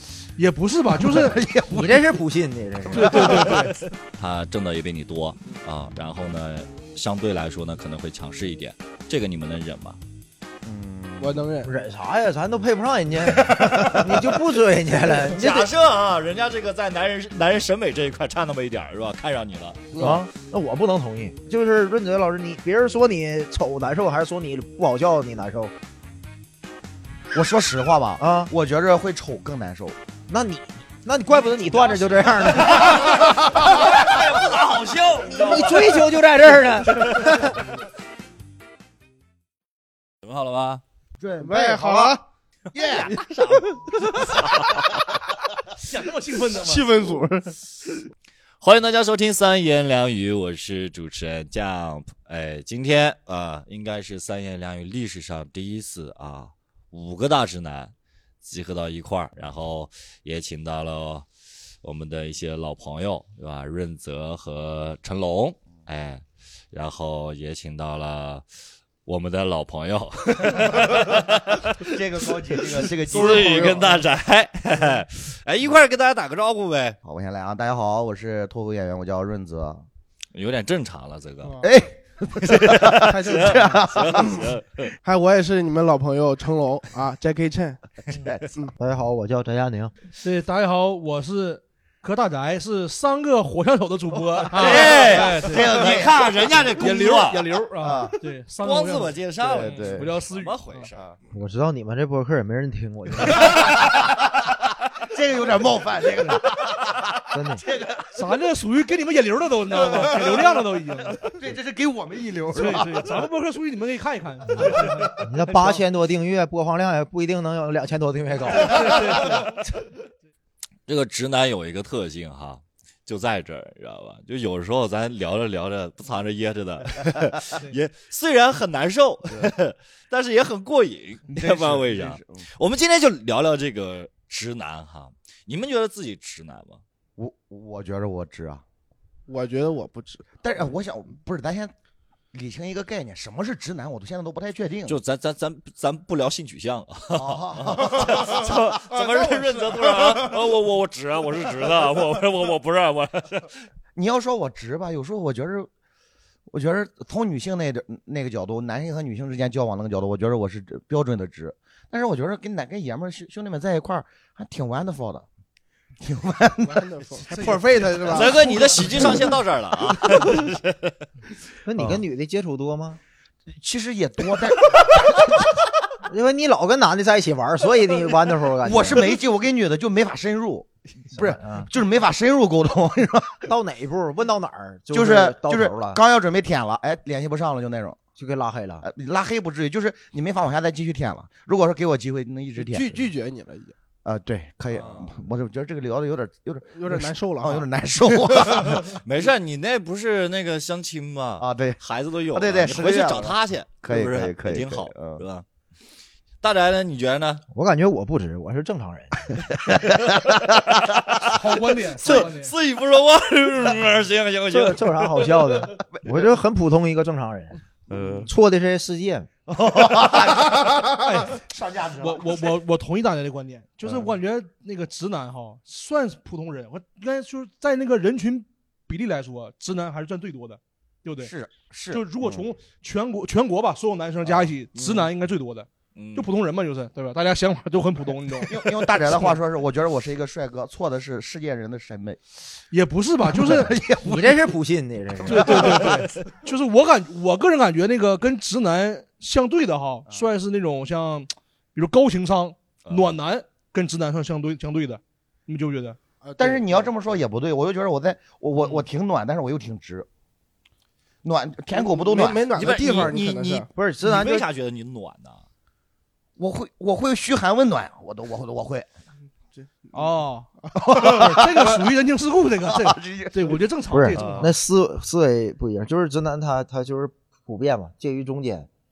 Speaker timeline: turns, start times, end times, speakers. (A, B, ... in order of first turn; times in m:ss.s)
0:00.4-0:01.4 A
0:01.0-0:02.1 B
0:01.7-0:03.5 C
0:02.9-0:03.6 B
0:02.9-0:03.8 A
0:03.8-0:10.0 D
0:10.6-0:11.4 B
0:11.2-0:11.7 E
0:11.6-0:15.7 C
0:13.5-0:14.2 D
0:15.0-0:20.0 D
0:19.9-0:20.2 E
0:20.0-0:25.7 C
0:27.3-0:30.0 B
0:28.2-0:28.5 C
0:30.3-0:33.2 C
0:31.8-0:36.1 D
0:35.3-0:37.5 C
0:36.8-0:37.6 D
0:40.2-0:40.8 D
0:41.2-0:42.2 B
0:41.4-0:42.2 E
0:42.7-0:43.2 B
0:42.8-0:44.9 D
0:43.0-0:44.2 E
0:45.8-0:47.2 A
0:46.5-0:48.0 E
0:48.6-1:01.2 D
1:01.8-1:08.4 D
1:09.0-1:11.9 D
1:11.8-1:14.0 B
1:12.5-1:17.0 D
1:13.1-1:13.9 E
1:17.0-1:19.8 B
1:20.3-1:21.6 D
1:21.6-1:24.5 B
1:22.5-1:24.9 D
1:23.0-1:24.4 E
1:25.0-1:27.8 E
1:28.8-1:29.9 C
1:30.2-1:35.8 A
1:34.5-1:37.4 D
1:34.6-1:36.8 B
1:36.8-1:40.9 A
1:37.8-1:38.1 B
1:38.6-1:41.0 D
1:39.4-1:40.1 B
1:41.3-1:43.5 C
1:43.4-1:44.0 B
1:45.0-1:48.2 B
1:47.3-1:47.6 C
1:48.1-1:51.3 A
1:49.9-1:50.5 B
1:51.2-1:53.2 B
1:52.5-1:55.8 A
1:55.2-1:59.1 C
1:58.6-1:59.5 A
2:00.9-2:16.8 D
2:11.3-2:12.4 B
2:17.2-2:18.6 B
2:19.3-2:20.3 E
2:20.4-2:21.7 B
2:22.3-2:25.0 B
2:24.9-2:33.6 D
2:27.1-2:29.2 B
2:29.5-2:30.2 E
2:33.9-2:35.7 B
2:36.5-2:45.2 B
2:46.0-2:46.9 B
2:46.6-2:48.5 E
2:47.3-2:49.2 A
2:48.1-2:51.0 D
2:48.5-2:49.3 B
2:50.0-2:50.4 B
2:51.6-2:53.0 C
2:53.5-2:55.5 B
2:56.1-2:59.1 C
2:58.6-3:03.5 B
3:01.1-3:01.7 C
3:03.5-3:06.0 C
3:04.9-3:08.0 B
3:08.2-3:08.8 C
3:08.8-3:13.1 B
3:12.6-3:13.7 E
3:14.0-3:19.0 B
3:14.7-3:15.2 D
3:16.7-3:17.7 E
3:18.7-3:25.4 D
3:21.4-3:21.8 B
3:22.3-3:25.2 B
3:26.4-3:27.4 D
3:27.5-3:29.3 C
3:29.6-3:30.4 B
3:30.0-3:31.4 D
3:31.3-3:32.5 A
3:31.9-3:35.5 D
3:34.5-3:37.6 C
3:37.9-3:38.3 B
3:38.2-3:39.3 C
3:39.5-3:42.6 B
3:41.0-3:41.4 A
3:42.0-3:51.3 A
3:51.2-3:52.4 B
3:51.9-3:59.3 A
3:54.2-3:55.0 B
3:55.9-3:56.3 D
3:58.4-4:02.2 B
4:02.7-4:03.7 A
4:03.3-4:04.4 B
4:04.0-4:05.8 C
4:05.1-4:05.8 B
4:05.2-4:16.0 A
4:12.8-4:13.1 D
4:16.2-4:17.2 E
4:16.4-4:20.1 B
4:21.2-4:22.7 B
4:21.7-4:23.7 E
4:22.6-4:25.4 D
4:23.7-4:24.5 C
4:26.4-4:28.9 B
4:29.5-4:30.1 E
4:29.9-4:34.5 A
4:30.6-4:30.9 E
4:30.8-4:31.6 B
4:32.6-4:33.6 B
4:33.9-4:38.7 C
4:34.1-4:34.5 B